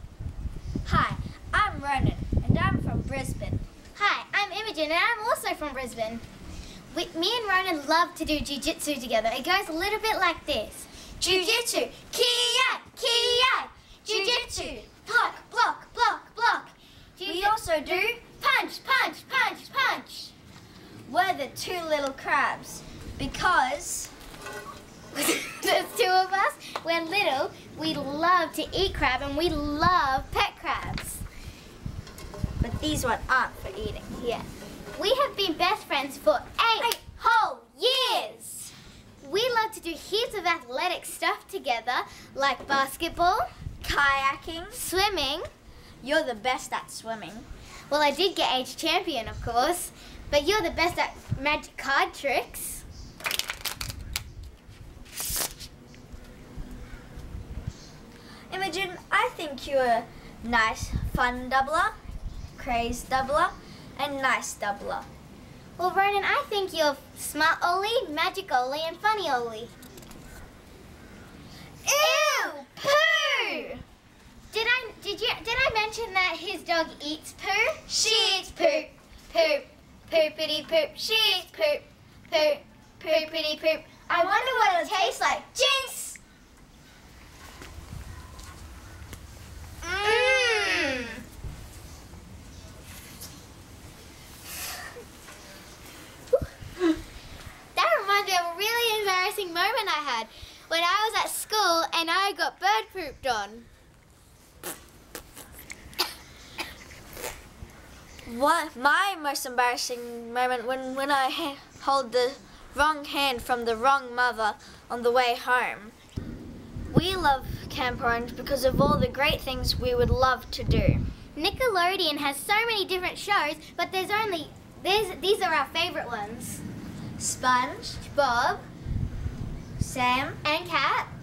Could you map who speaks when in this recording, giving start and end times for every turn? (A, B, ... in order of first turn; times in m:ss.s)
0:00.8-0:03.6 A
0:04.0-0:06.2 B
0:06.9-0:20.3 B
0:11.2-0:11.9 A
0:14.1-0:14.8 A
0:17.2-0:18.2 A
0:21.1-0:24.1 A
0:25.1-0:31.2 B
0:32.6-0:34.1 A
0:34.2-0:43.5 B
0:43.8-0:44.8 A
0:44.7-0:45.5 B
0:46.0-0:47.5 A
0:47.9-0:52.8 B
0:58.5-1:01.9 A
1:02.6-1:05.0 A
1:05.8-1:09.7 B
1:11.8-1:13.8 A
1:12.0-1:12.6 B
1:14.5-1:19.6 B
1:17.9-1:19.6 A
1:20.1-1:22.5 A
1:22.3-1:26.2 B
1:23.0-1:25.4 A
1:29.8-1:31.1 A
1:30.0-1:31.2 B
1:37.7-1:43.6 B
1:48.2-1:55.9 A
1:56.9-2:01.0 A
2:01.4-2:06.6 B
2:07.2-2:08.0 A
2:08.0-2:08.7 B
2:09.8-2:10.4 A
2:10.4-2:11.1 B